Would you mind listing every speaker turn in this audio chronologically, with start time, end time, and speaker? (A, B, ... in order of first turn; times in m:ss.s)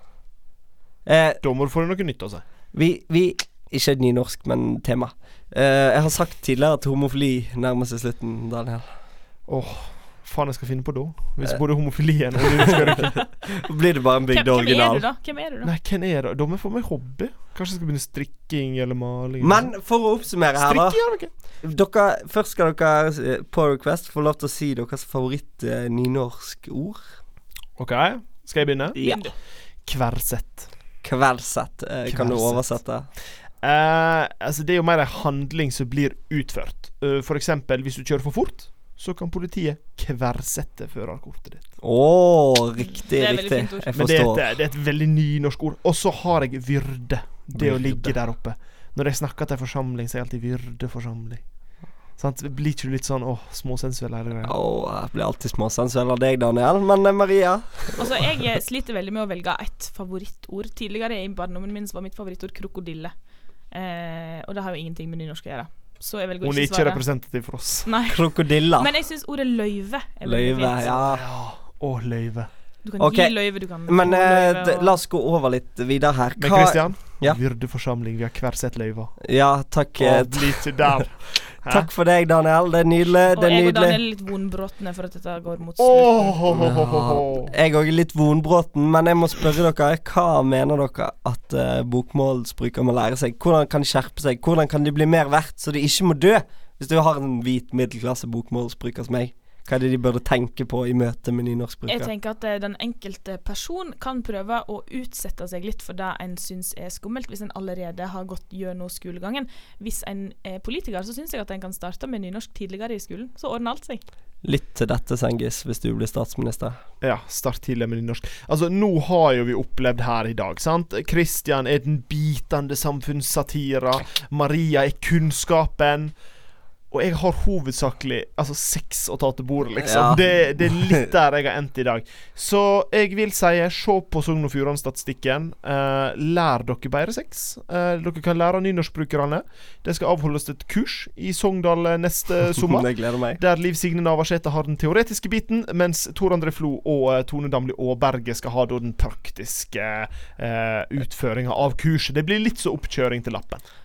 0:01.0-0:01.4 A
0:01.4-0:02.4 B
0:02.7-0:08.8 A
0:09.5-0:13.3 B
0:12.5-0:15.0 A
0:14.3-0:15.7 C
0:15.6-0:19.7 B
0:19.4-0:21.0 A
0:20.6-0:21.3 B
0:21.6-0:27.0 A
0:27.8-0:29.0 B
0:29.0-0:29.3 C
0:29.0-0:29.2 A
0:29.8-0:30.7 B
0:31.0-0:33.1 A
0:32.1-0:32.6 B
0:33.6-0:41.6 B
0:41.8-0:44.5 A
0:42.8-0:43.9 C
0:43.9-0:51.4 B
0:47.6-0:48.1 A
0:52.2-0:54.5 B
0:54.4-0:58.1 A
0:58.0-1:03.1 C
1:03.7-1:07.0 C
1:06.4-1:07.9 B
1:07.8-1:08.2 C
1:08.0-1:08.9 A
1:08.8-1:10.9 C
1:10.2-1:11.2 A
1:10.8-1:12.5 B
1:12.8-1:14.9 C
1:13.0-1:13.3 A
1:13.9-1:17.4 A
1:16.4-1:19.1 B
1:19.2-1:20.6 A
1:20.0-1:21.9 B
1:21.7-1:24.0 A
1:23.3-1:26.4 C
1:25.8-1:27.5 B
1:26.5-1:42.1 A
1:41.9-1:54.0 C
1:54.4-1:56.8 A
1:57.0-2:06.1 B
2:06.9-2:33.6 B
2:09.8-2:11.0 A
2:22.5-2:23.4 A